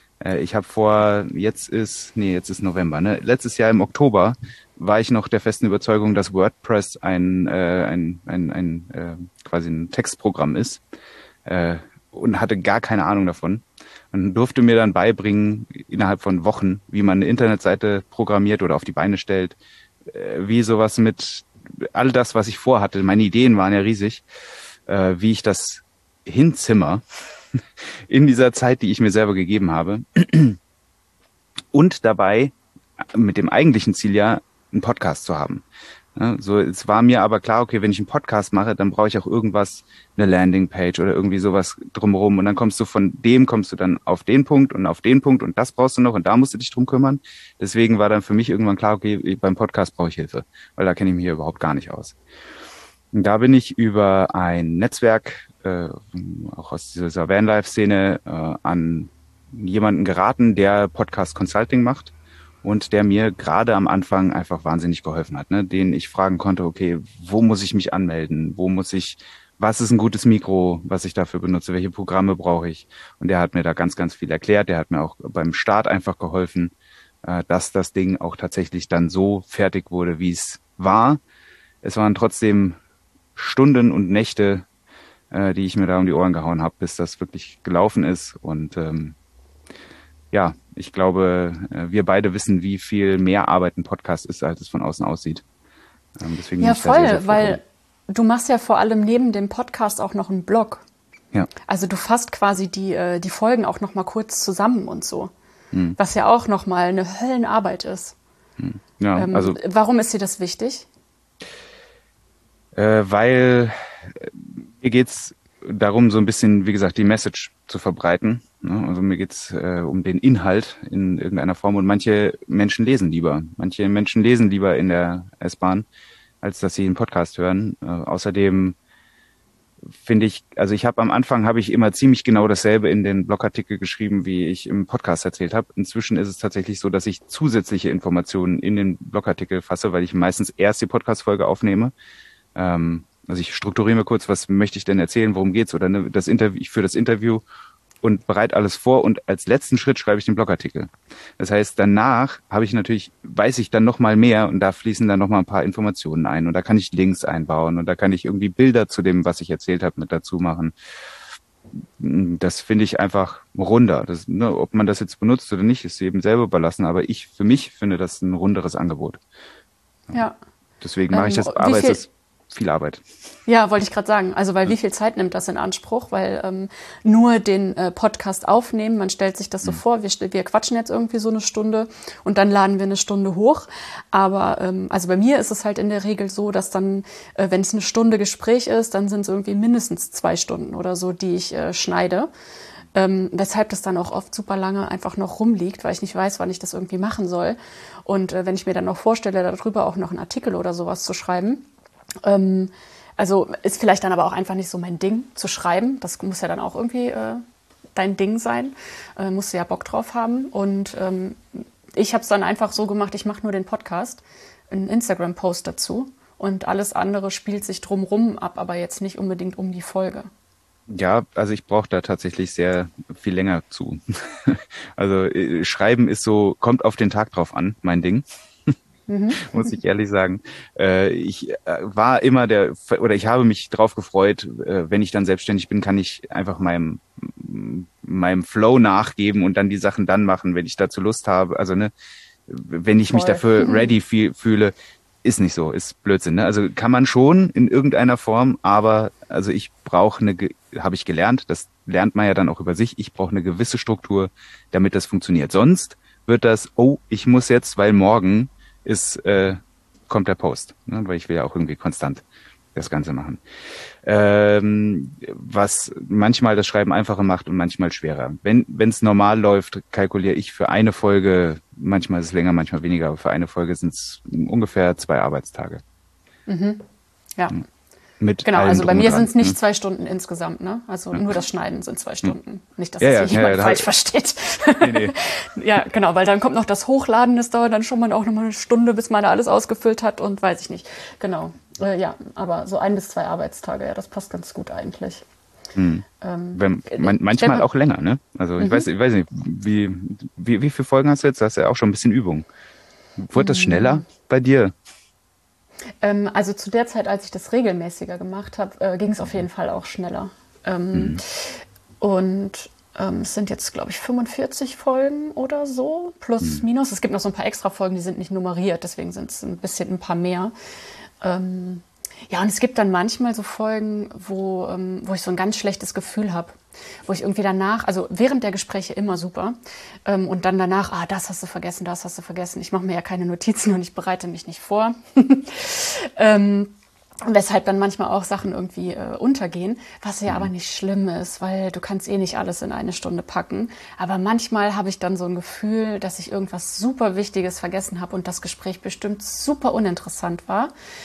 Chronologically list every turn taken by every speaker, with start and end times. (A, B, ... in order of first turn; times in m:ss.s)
0:00.2-0:10.8 A
0:11.5-0:24.2 A
0:24.9-0:27.0 A
0:28.1-0:30.6 A
0:31.7-0:32.5 A
0:33.1-0:35.6 A
0:36.2-0:52.2 A
0:53.1-1:16.7 A
1:17.2-1:21.2 A
1:21.8-1:22.8 A
1:23.4-1:24.6 A
1:25.3-1:29.2 A
1:30.3-1:35.4 A
1:36.2-1:37.6 A
1:36.6-1:40.8 B
1:41.7-1:45.3 B
1:45.7-1:46.0 A
1:46.0-1:48.2 B
1:48.6-1:49.6 A
1:49.2-1:50.9 B
1:52.8-2:05.9 A
2:06.4-2:08.8 A
2:10.0-2:21.9 A
2:22.6-2:27.4 A
2:28.0-2:40.7 A
2:42.0-2:49.2 A
2:50.8-2:53.0 A
2:51.1-2:52.0 B
2:53.5-3:12.3 B
3:12.9-3:21.7 B
3:22.2-3:27.4 B
3:28.0-3:40.3 B
3:40.9-3:48.7 A
3:49.1-3:49.8 B
3:49.4-4:01.9 A
4:02.5-4:22.2 A
4:03.1-4:03.9 B
4:22.8-4:23.4 A
4:24.0-4:35.8 A
4:36.5-4:36.8 B
4:38.2-4:39.6 A
4:38.4-4:55.2 B
4:43.0-4:43.9 A
4:44.8-4:45.2 A
4:55.8-5:02.4 A
4:56.2-4:57.7 B
4:58.6-4:58.9 B
5:03.2-5:04.7 A
5:03.4-5:04.0 B
5:06.0-5:20.5 B
5:10.9-5:11.2 A
5:21.2-5:50.7 B